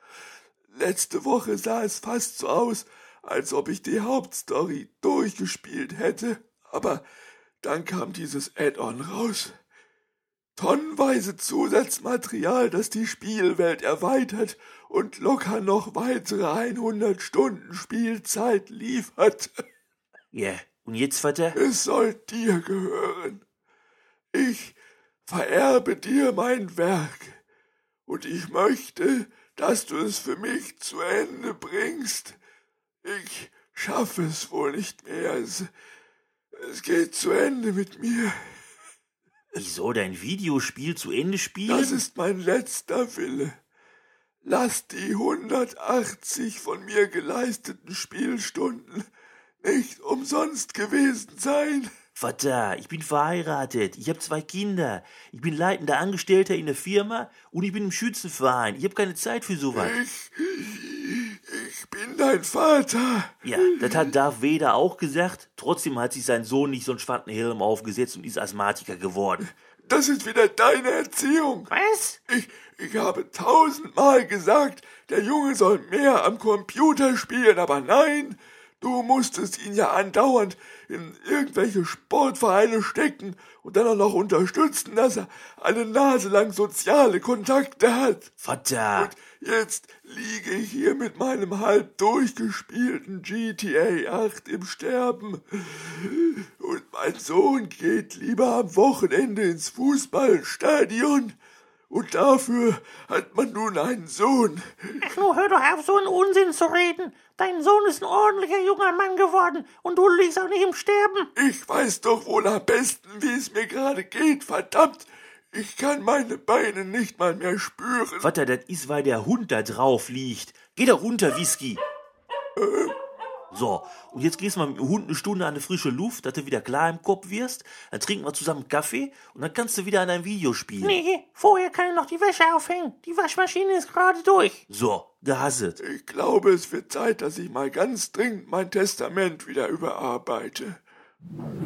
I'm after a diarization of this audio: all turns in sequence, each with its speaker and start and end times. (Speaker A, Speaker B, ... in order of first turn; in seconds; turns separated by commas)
Speaker A: 0.7-7.0, Speaker A: 7.6-9.6, Speaker A: 10.6-19.6, Speaker B: 20.3-21.6, Speaker A: 21.5-23.4, Speaker A: 24.3-27.4, Speaker A: 28.1-32.4, Speaker A: 33.0-35.7, Speaker A: 36.5-38.4, Speaker B: 39.5-42.0, Speaker A: 41.7-43.6, Speaker A: 44.4-49.0, Speaker A: 49.6-51.9, Speaker B: 52.1-60.0, Speaker A: 59.7-64.1, Speaker B: 63.4-69.5, Speaker A: 69.8-71.7, Speaker C: 71.7-72.2, Speaker A: 72.3-88.3, Speaker B: 88.4-89.1, Speaker A: 89.0-101.3, Speaker A: 101.9-105.1, Speaker C: 105.0-111.3, Speaker A: 111.3-118.3, Speaker B: 118.2-121.8, Speaker A: 122.6-122.9, Speaker B: 123.5-131.0, Speaker C: 130.8-134.6, Speaker B: 134.7-135.8, Speaker A: 135.8-140.8